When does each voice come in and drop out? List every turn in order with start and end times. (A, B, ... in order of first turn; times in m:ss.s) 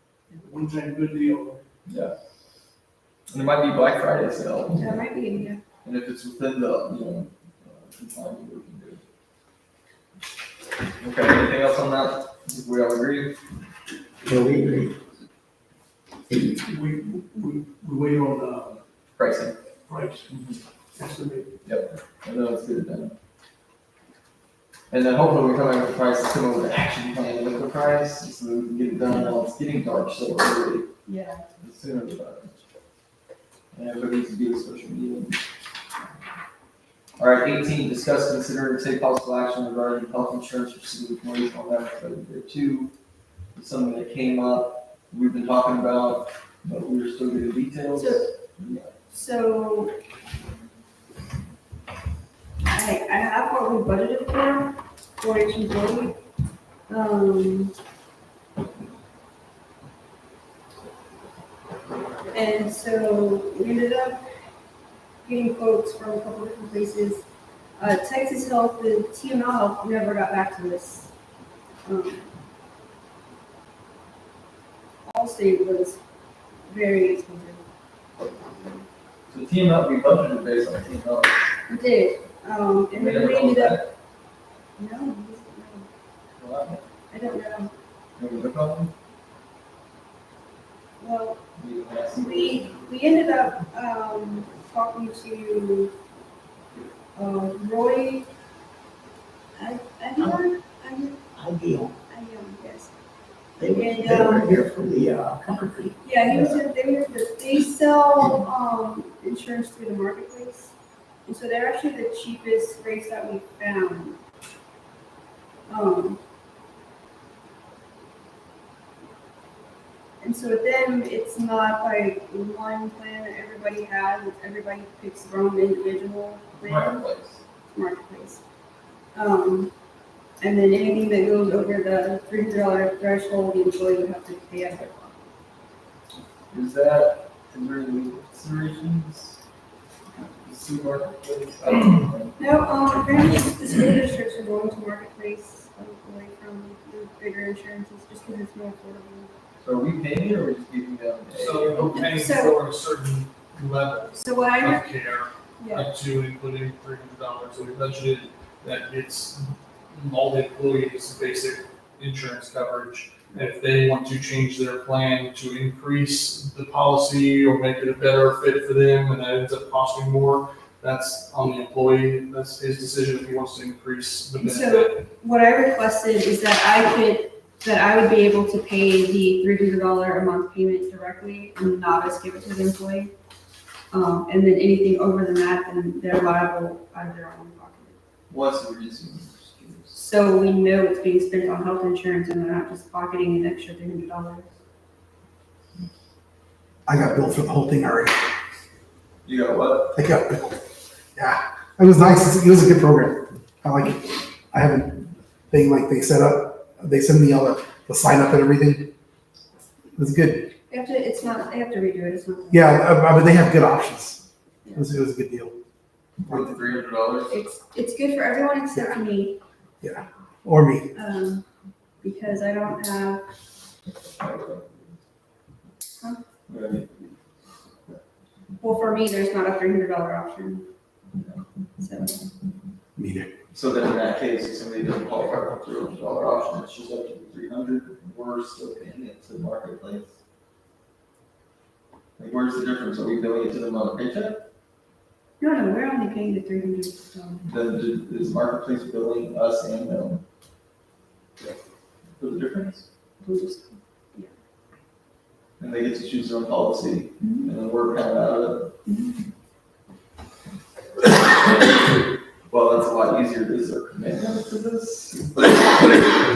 0:00.4-0:01.6 A
0:01.8-0:02.1 B
0:03.3-0:05.0 B
0:04.8-0:05.6 C
0:05.8-0:09.0 B
0:11.0-0:13.4 B
0:14.2-0:14.9 D
0:16.6-0:18.8 A
0:19.2-0:19.6 B
0:19.9-0:20.2 A
0:20.3-0:20.6 B
0:21.0-0:21.4 A
0:21.6-0:23.1 B
0:24.9-0:30.9 B
0:31.0-0:31.4 C
0:31.6-0:32.6 B
0:33.7-0:35.4 B
0:37.2-0:42.9 B
0:43.5-0:49.0 B
0:48.0-0:48.3 C
0:49.1-0:49.9 C
0:52.6-0:56.2 C
0:56.9-0:57.7 C
1:02.3-1:04.2 C
1:05.2-1:07.2 C
1:07.8-1:11.1 C
1:11.8-1:12.3 C
1:15.0-1:16.0 C
1:16.7-1:17.6 C
1:18.2-1:18.8 C
1:19.3-1:21.4 B
1:21.7-1:23.8 C
1:22.9-1:23.9 B
1:24.8-1:25.9 C
1:26.4-1:26.8 B
1:27.1-1:27.7 C
1:28.2-1:28.9 B
1:31.0-1:31.4 C
1:31.6-1:32.8 B
1:32.1-1:35.9 C
1:37.1-1:38.3 C
1:39.6-1:41.2 C
1:41.4-1:41.9 D
1:42.1-1:42.9 C
1:43.6-1:46.5 D
1:43.7-1:44.6 C
1:46.0-1:50.7 C
1:51.2-1:54.2 C
1:55.7-1:56.2 C
2:00.2-2:07.0 C
2:06.5-2:07.4 B
2:07.7-2:08.4 C
2:09.1-2:09.7 C
2:10.4-2:15.3 C
2:16.5-2:19.4 B
2:20.4-2:22.4 B
2:22.4-2:29.3 C
2:29.6-2:32.1 B
2:31.3-2:55.0 E
2:32.0-2:32.6 C
2:34.1-2:34.9 C
2:35.6-2:35.9 C
2:54.4-3:03.1 C
3:03.9-3:07.9 C
3:08.3-3:10.0 B
3:09.9-3:14.5 C
3:16.9-3:18.2 F
3:19.2-3:20.0 B
3:19.9-3:20.6 F
3:21.2-3:28.9 F
3:30.0-3:30.5 F
3:30.7-3:32.9 C
3:32.5-3:35.5 F
3:36.2-3:37.3 B
3:37.3-3:39.4 C
3:39.8-3:40.8 F
3:40.9-3:41.4 C
3:42.0-3:43.2 C
3:44.2-3:44.8 B
3:46.5-3:47.1 B
3:48.6-3:50.6 C
3:51.2-3:51.4 B
3:51.8-3:52.3 C
3:53.0-3:53.3 F
3:53.5-4:00.1 B
4:02.2-4:04.4 B
4:05.4-4:07.4 C
4:07.4-4:10.2 B
4:12.2-4:12.8 B
4:13.2-4:14.3 C
4:15.6-4:18.8 B
4:17.2-4:17.5 C
4:22.5-4:26.2 B